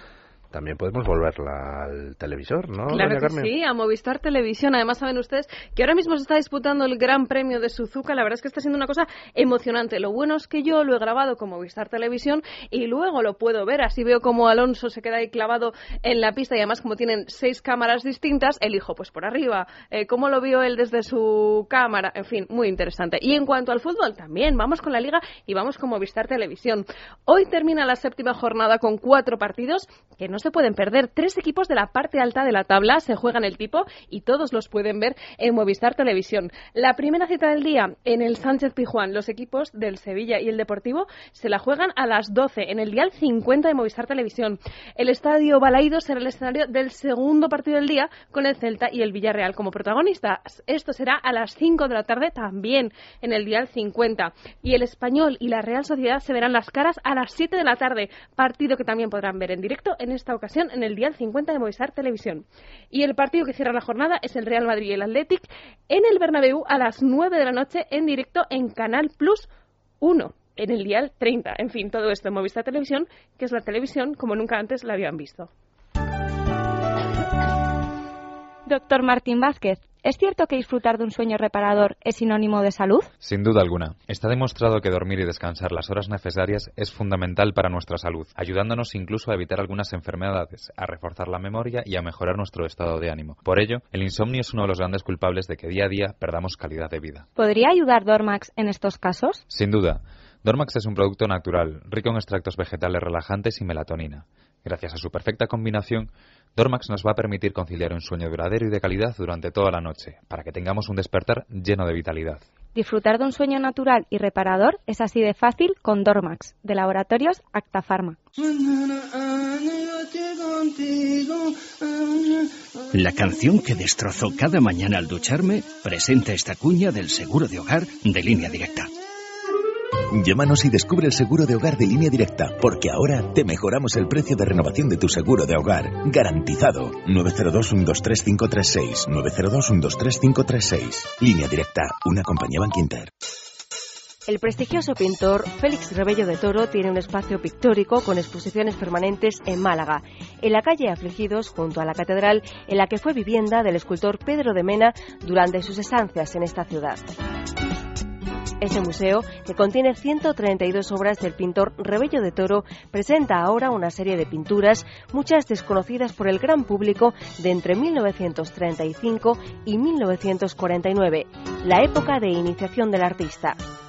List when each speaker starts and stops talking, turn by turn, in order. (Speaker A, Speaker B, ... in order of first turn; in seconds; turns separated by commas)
Speaker A: 0.5-3.5, Speaker B: 2.9-69.5, Speaker B: 70.0-75.5, Speaker C: 78.7-83.1, Speaker D: 83.2-97.3, Speaker C: 97.4-99.5, Speaker D: 99.5-112.5, Speaker C: 112.7-118.2, Speaker E: 122.9-128.9, Speaker F: 130.1-143.1, Speaker G: 144.3-157.1, Speaker G: 158.6-173.6